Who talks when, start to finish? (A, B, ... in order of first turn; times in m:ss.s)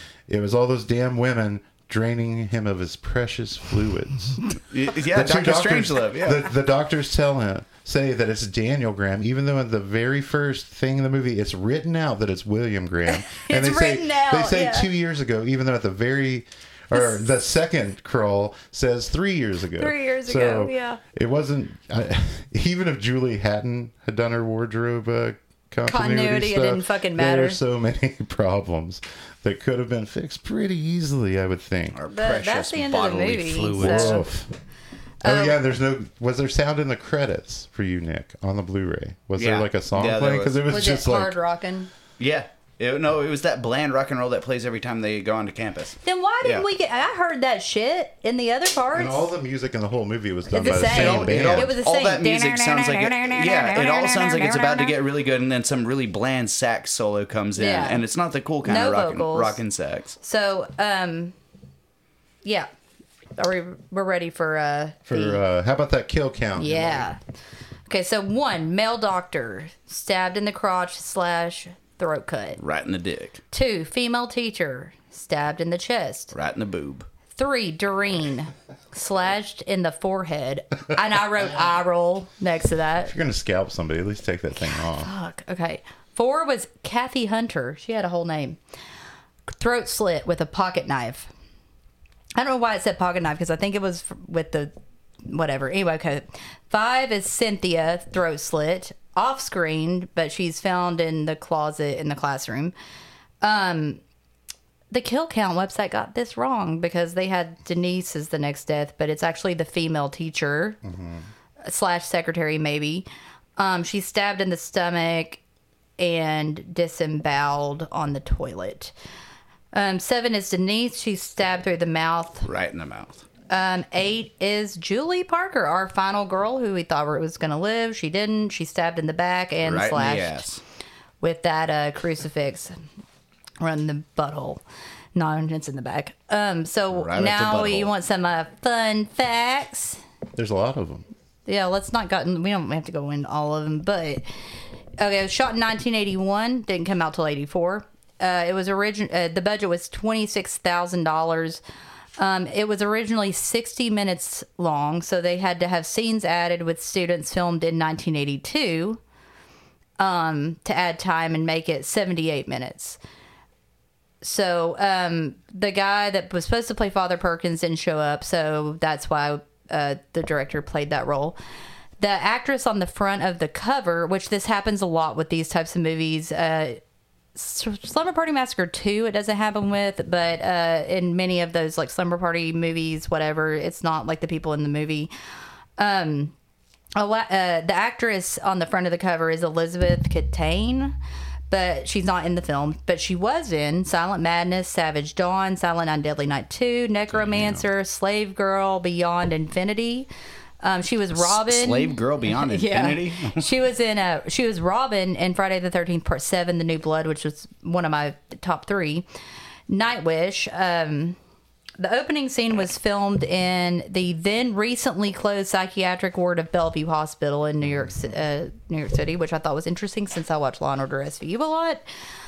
0:00.3-0:04.4 A
0:04.7-0:06.5 B
0:05.1-0:32.0 A
0:13.1-0:14.9 C
0:19.8-0:21.0 C
0:25.9-0:27.6 C
0:32.0-0:34.3 B
0:32.1-0:34.2 C
0:33.8-0:34.5 A
0:35.2-0:35.6 C
0:35.2-0:41.4 A
0:39.4-0:40.6 B
0:40.7-0:41.9 C
0:42.2-0:46.7 B
0:46.0-0:49.3 C
0:48.9-0:51.7 A
0:50.5-0:55.0 C
0:50.6-1:00.2 B
0:57.6-0:58.0 C
0:58.6-0:59.6 C
1:00.2-1:01.3 C
1:02.4-1:02.7 C
1:03.4-1:05.4 C
1:05.1-1:07.1 A
1:06.6-1:07.2 C
1:07.9-1:12.6 C
1:12.6-1:13.4 B
1:13.5-1:16.3 C
1:16.3-1:17.1 B
1:17.3-1:23.1 C
1:23.1-1:25.1 A
1:24.7-1:28.6 C
1:29.5-1:31.3 C
1:32.4-1:34.7 C
1:35.3-1:42.7 C
1:43.4-1:44.0 C
1:44.9-1:50.8 C
1:50.8-1:51.3 A
1:51.6-1:53.1 C
1:53.6-1:55.4 C
1:56.0-1:58.9 C
1:59.7-2:02.5 C
2:02.4-2:03.2 B
2:03.5-2:10.5 C
2:09.6-2:10.6 B
2:11.2-2:12.8 C
2:13.6-2:14.6 C
2:15.2-2:20.0 C
2:16.9-2:17.9 B
2:20.4-2:21.1 A
2:21.5-2:24.2 C
2:25.0-2:31.6 C
2:32.2-2:39.0 C
2:40.0-2:43.0 C
2:44.2-2:51.4 C
2:52.0-2:56.8 C
2:57.4-3:05.1 C
3:05.8-3:06.3 C
3:07.0-3:11.0 C
3:11.5-3:20.1 C
3:17.1-3:17.7 A
3:20.6-3:29.1 C
3:21.2-3:23.5 B
3:29.7-3:31.2 C
3:31.8-3:41.8 C